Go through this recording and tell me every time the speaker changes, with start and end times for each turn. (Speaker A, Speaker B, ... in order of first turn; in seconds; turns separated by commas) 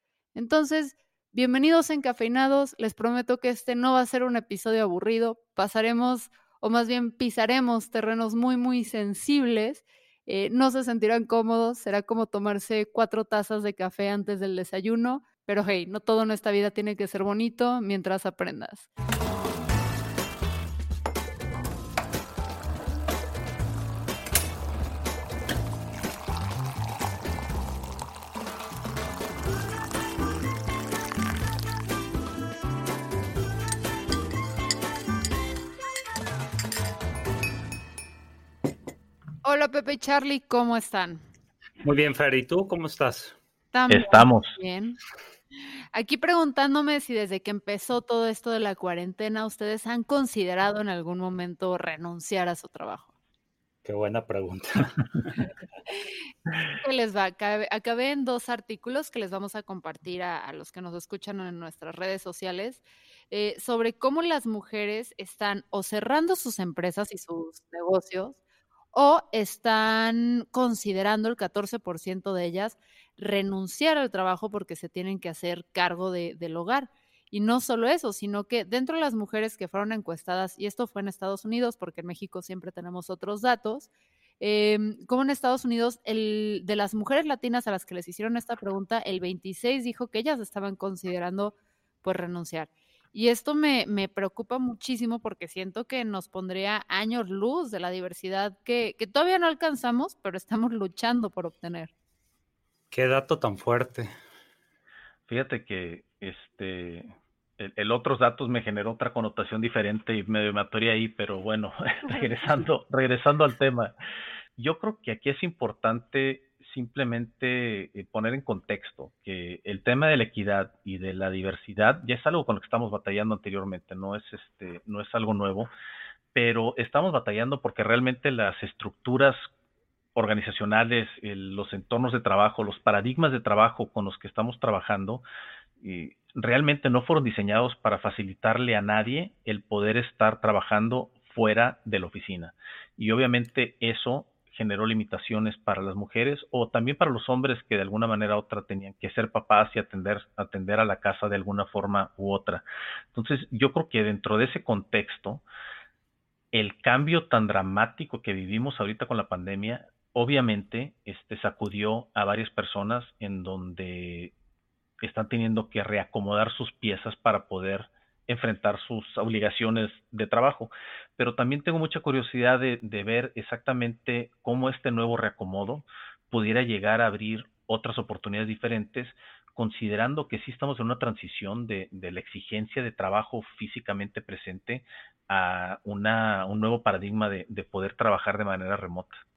Speaker A: 0.3-18.9, Speaker A: 39.4-41.2, Speaker B: 41.8-43.4, Speaker A: 43.7-45.0, Speaker C: 43.9-44.6, Speaker A: 45.9-53.1, Speaker B: 53.9-55.0, Speaker A: 56.8-68.4, Speaker A: 68.9-83.9, Speaker A: 84.4-101.9, Speaker B: 102.9-104.1, Speaker C: 105.3-113.9, Speaker C: 114.6-125.7, Speaker C: 126.3-129.5, Speaker C: 130.2-135.2, Speaker C: 135.8-155.4, Speaker C: 156.5-164.3, Speaker C: 165.0-189.2